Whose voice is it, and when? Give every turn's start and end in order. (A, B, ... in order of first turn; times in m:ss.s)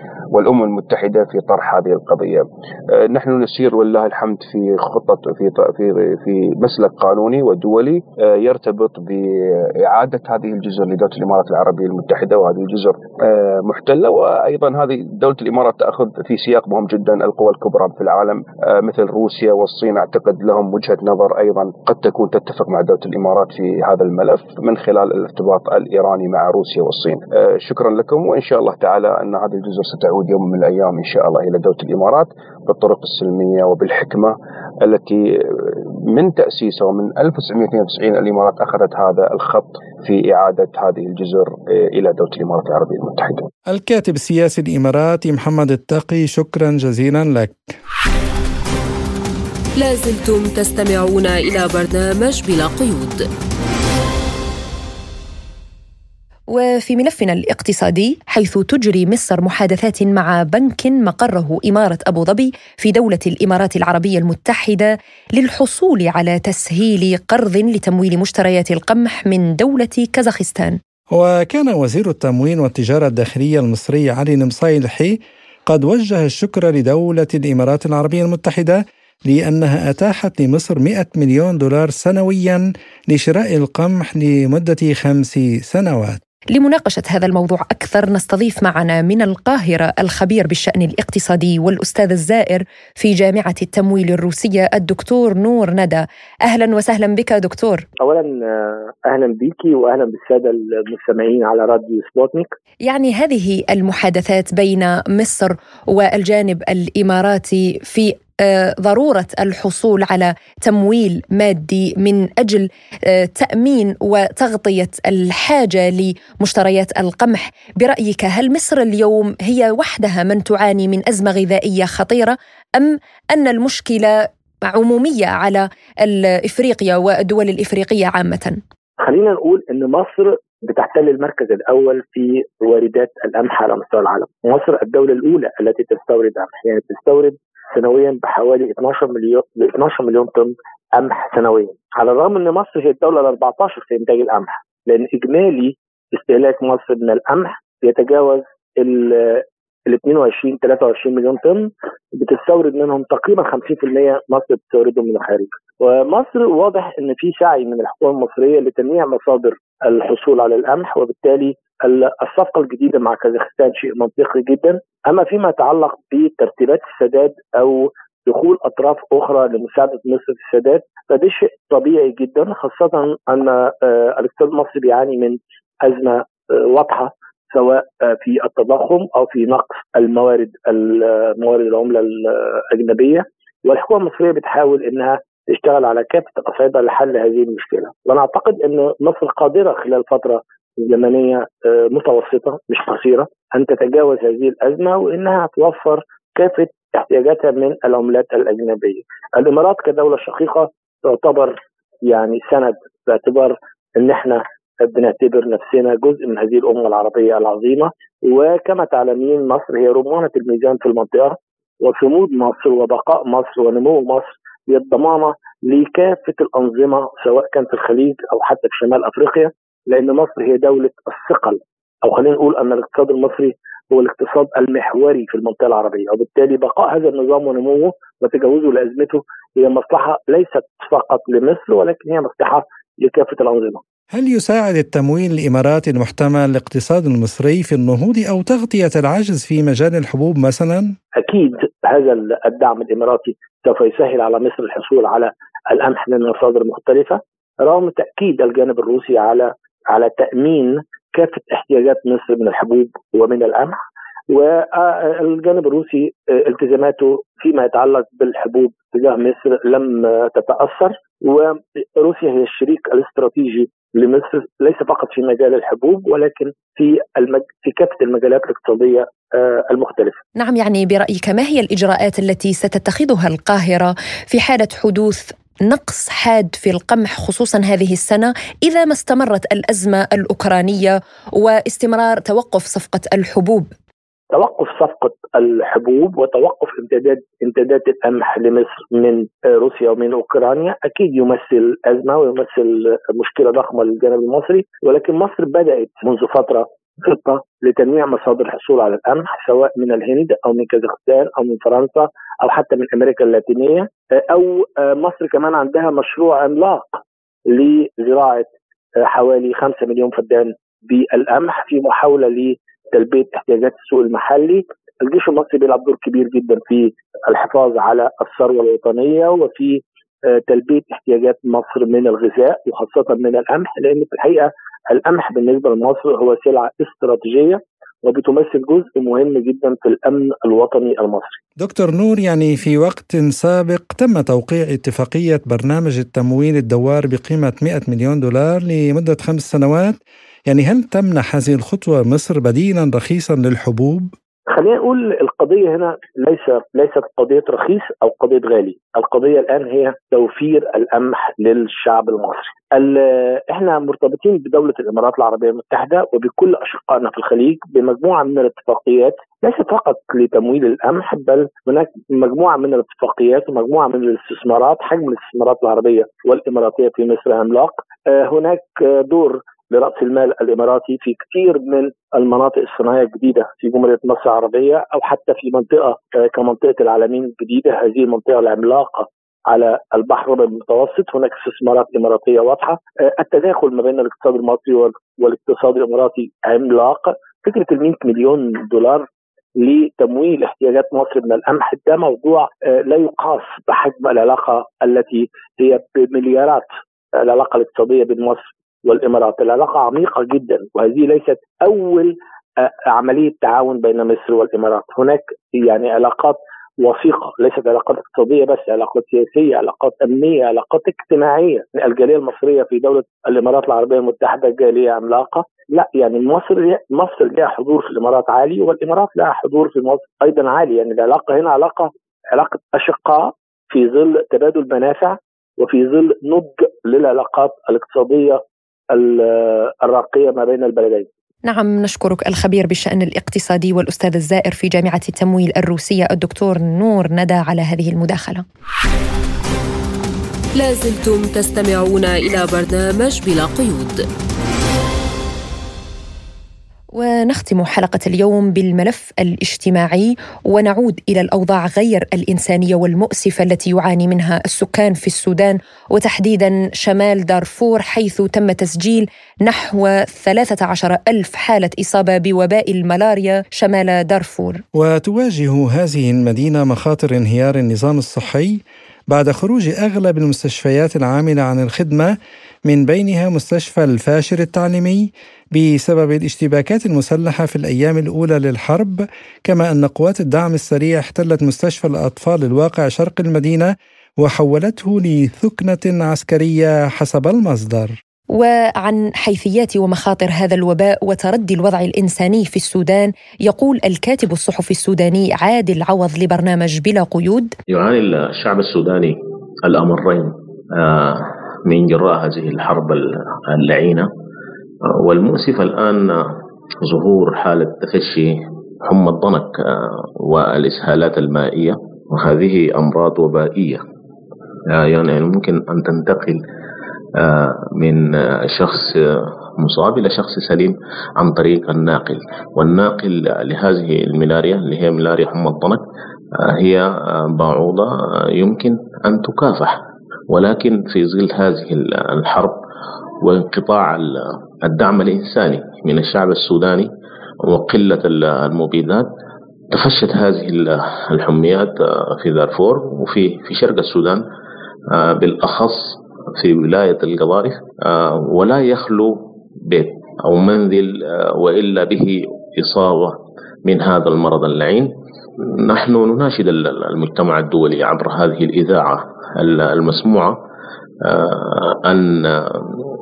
0:00.3-0:43.5 A
0:43.7-0:47.8 B
0:49.8-0:53.2 C
0:56.5-1:10.8 D
1:11.1-1:26.2 B
1:26.5-1:37.8 D
1:38.0-1:42.5 E
1:42.9-2:04.2 D
2:04.7-2:08.6 D
2:09.0-3:21.6 E
3:22.1-3:53.8 E
3:54.1-4:00.9 B
4:01.2-4:13.8 E
4:14.3-4:30.2 E
4:30.4-4:43.7 D
4:44.3-5:08.5 E
5:09.0-5:31.4 E
5:31.6-5:44.1 B
5:44.5-6:29.1 E
6:29.6-7:08.4 E
7:08.9-7:11.1 E
7:11.5-7:18.4 D
7:20.6-7:24.0 C
7:26.9-7:44.6 D
7:44.8-7:52.1 B
7:52.7-8:08.0 B
8:08.3-8:17.6 D
8:17.7-8:24.1 F
8:25.0-8:33.8 F
8:34.7-8:36.4 F
8:37.2-8:45.8 F
8:46.4-8:49.8 F
8:50.3-8:52.6 F
8:53.2-8:56.9 F
8:57.5-8:59.1 F
8:59.7-9:04.2 F
9:04.9-9:09.2 F
9:09.7-9:14.9 F
9:15.6-9:20.4 F
9:21.1-9:22.8 F